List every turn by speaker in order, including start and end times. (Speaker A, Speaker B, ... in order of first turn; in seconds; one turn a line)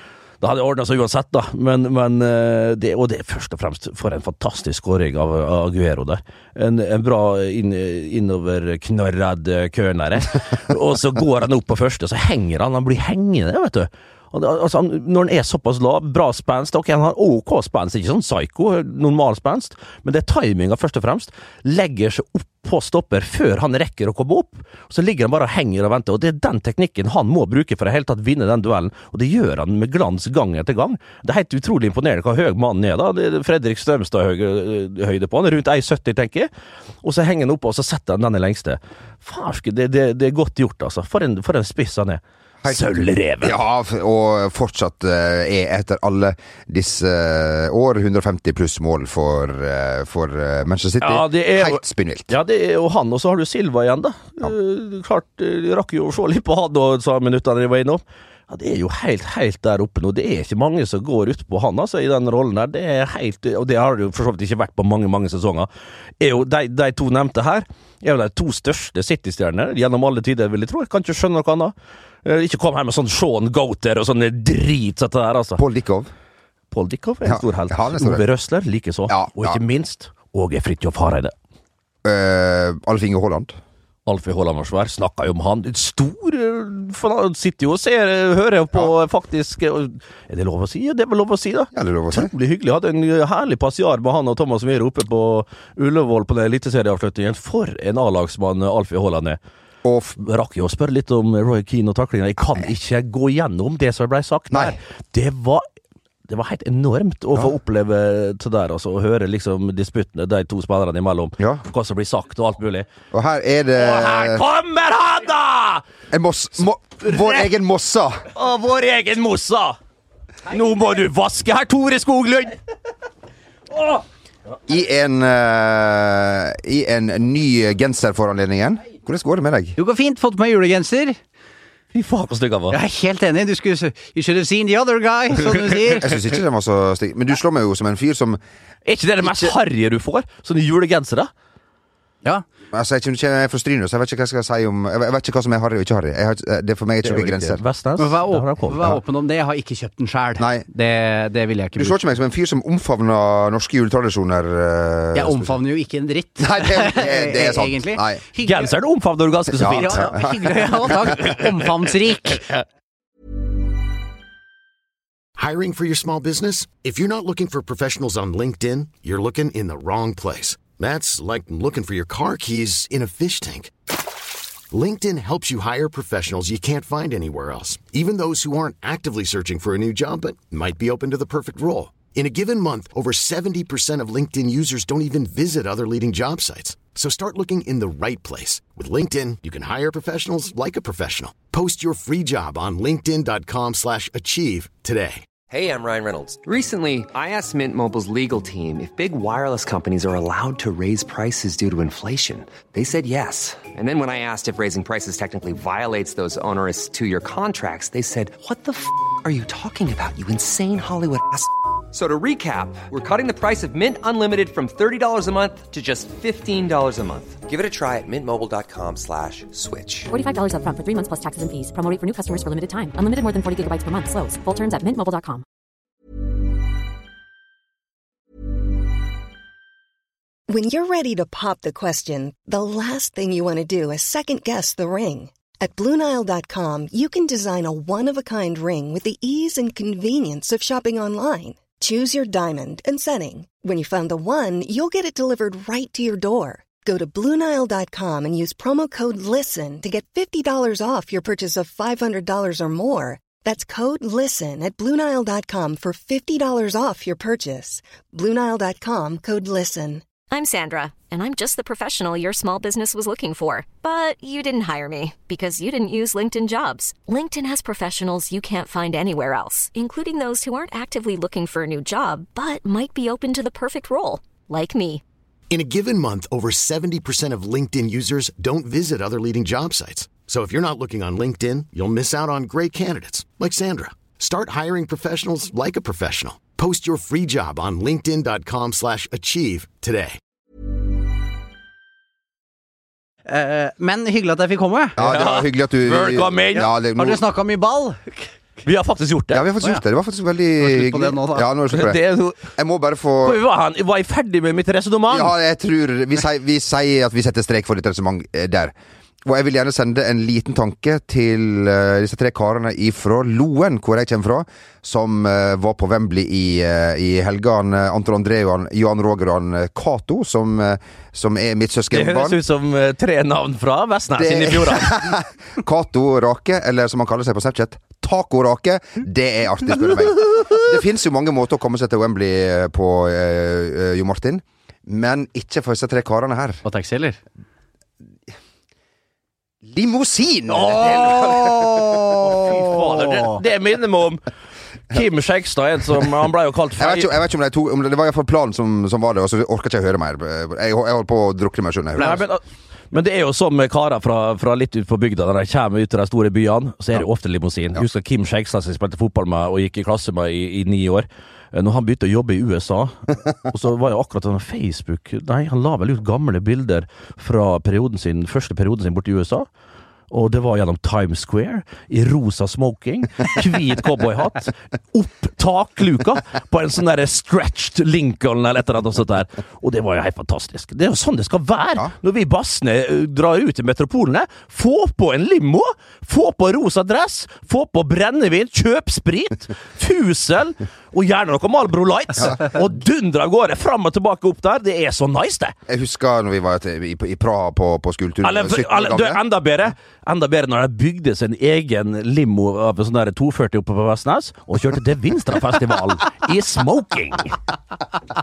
Speaker A: 0.4-36.5
Speaker A: 37.0-43.6
Speaker B: 43.4-52.3
Speaker A: 51.0-65.7
Speaker A: 66.2-71.7
Speaker A: 72.2-75.6
Speaker B: 75.6-76.1
Speaker A: 76.7-81.3
Speaker B: 77.2-78.2
Speaker B: 79.1-79.6
Speaker B: 82.0-83.6
Speaker A: 84.0-99.4
Speaker B: 91.7-92.3
Speaker B: 99.8-100.2
Speaker A: 100.2-105.7
Speaker B: 104.5-104.8
Speaker A: 106.3-112.9
Speaker B: 113.1-114.4
Speaker A: 113.8-115.8
Speaker B: 116.1-118.2
Speaker A: 117.1-117.5
Speaker A: 118.3-119.8
Speaker A: 120.5-122.5
Speaker B: 124.7-129.8
Speaker C: 129.8-131.2
Speaker A: 131.9-132.8
Speaker C: 132.7-136.2
Speaker B: 136.0-138.4
Speaker A: 138.8-141.3
Speaker B: 139.2-139.5
Speaker B: 142.7-147.6
Speaker A: 147.0-148.9
Speaker C: 148.0-152.0
Speaker B: 150.4-150.6
Speaker B: 151.8-155.6
Speaker C: 155.1-158.7
Speaker B: 156.4-158.2
Speaker A: 158.4-160.1
Speaker B: 159.5-161.3
Speaker C: 159.7-162.4
Speaker D: 165.4-173.7
Speaker D: 174.7-195.2
Speaker E: 195.5-220.1
Speaker F: 220.1-225.4
Speaker G: 230.5-260.0
Speaker H: 260.3-275.0
Speaker D: 275.5-290.2
Speaker C: 293.3-295.0
Speaker B: 295.0-297.2
Speaker A: 295.0-296.7
Speaker C: 296.6-298.3
Speaker A: 298.6-299.4
Speaker B: 299.3-302.0
Speaker C: 300.6-301.5
Speaker A: 301.7-302.4
Speaker B: 302.5-303.4
Speaker A: 303.2-305.3
Speaker B: 305.1-308.7
Speaker B: 309.2-322.4
Speaker A: 321.9-325.1
Speaker B: 324.2-336.6
Speaker C: 336.6-337.2
Speaker B: 339.6-342.7
Speaker A: 340.5-344.2
Speaker C: 342.8-343.4
Speaker A: 344.9-347.1
Speaker B: 346.8-352.2
Speaker A: 352.0-369.5
Speaker A: 370.1-395.5
Speaker B: 395.7-399.2
Speaker A: 398.2-407.4